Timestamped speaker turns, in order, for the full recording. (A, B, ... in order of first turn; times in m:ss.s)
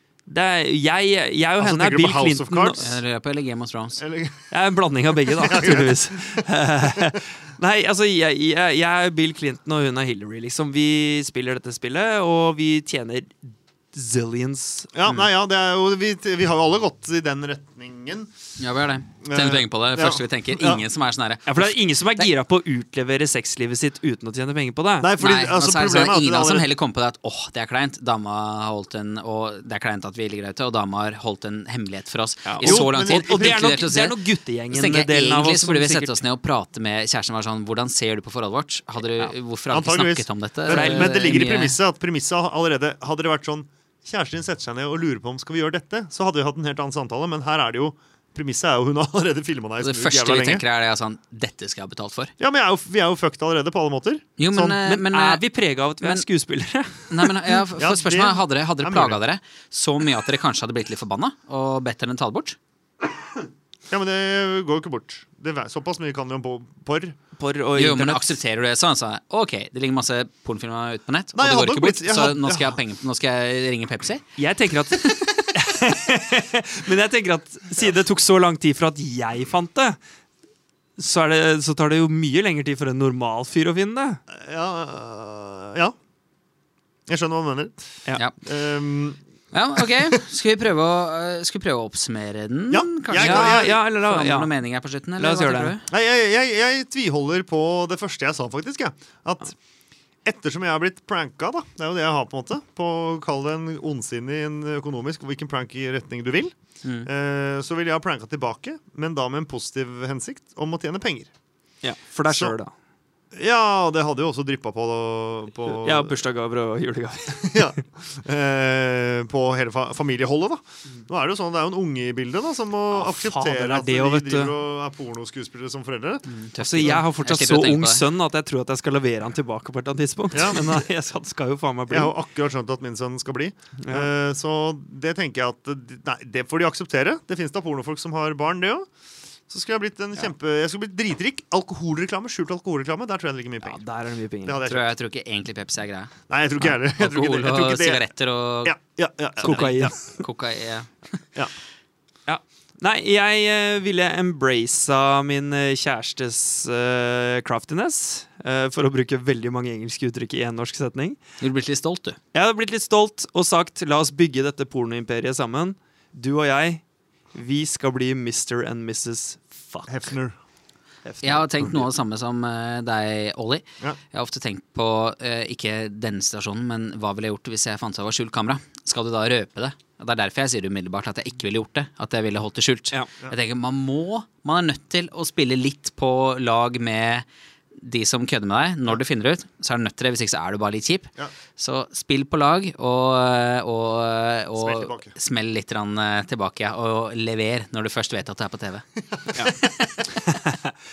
0:00.3-0:03.0 A
0:01.6-0:02.9 B
0:02.8-0:04.0 C
0:04.0-0:04.5 B
0:04.5-0:14.9 A
0:05.3-0:06.4 B
0:14.9-0:18.3 B
0:18.6-0:22.3 C
0:19.2-0:20.8 B
0:21.5-0:25.1 A
0:25.0-0:26.7 B
0:25.2-0:34.2 C
0:32.4-0:36.2 A
0:32.6-0:33.8 B
0:34.7-0:41.8 C
0:39.2-0:50.6 B
0:40.7-0:41.4 A
0:49.8-0:52.3 C
0:52.4-0:54.8 B
0:54.4-0:55.4 C
0:54.8-0:57.6 A
0:56.0-0:56.3 C
0:57.1-1:02.6 C
0:57.8-0:59.2 B
1:03.9-1:07.2 B
1:07.4-1:08.4 A
1:07.8-1:14.2 C
1:11.4-1:12.8 B
1:14.4-1:20.0 A
1:21.0-1:24.2 A
1:24.3-1:26.0 B
1:27.1-1:27.8 B
1:28.4-1:29.2 B
1:29.5-1:35.9 C
1:29.8-1:30.2 B
1:32.7-1:33.8 B
1:33.1-1:34.5 A
1:35.2-1:35.8 A
1:35.9-1:39.6 B
1:40.2-1:51.3 B
1:51.8-1:52.7 A
1:52.3-1:52.6 B
1:53.3-1:56.2 B
1:55.7-1:57.7 A
1:57.4-2:06.3 B
2:02.9-2:04.6 A
2:06.3-2:08.0 C
2:06.6-2:12.2 A
2:10.3-2:10.9 B
2:11.9-2:18.9 B
2:13.8-2:14.1 A
2:19.5-2:23.8 B
2:23.6-2:24.6 A
2:24.4-2:24.9 B
2:24.6-2:28.8 C
2:26.3-2:28.1 B
2:28.6-2:30.0 B
2:29.4-2:31.2 C
2:29.4-2:30.0 A
2:32.3-2:41.2 A
2:41.4-2:42.2 C
2:42.3-2:46.8 A
2:47.3-2:50.0 A
2:49.9-2:50.4 B
2:51.0-2:51.9 A
2:51.2-3:07.3 C
3:07.8-3:18.8 C
3:14.6-3:15.2 B
3:19.1-3:19.5 B
3:19.6-3:20.0 C
3:20.2-3:20.7 A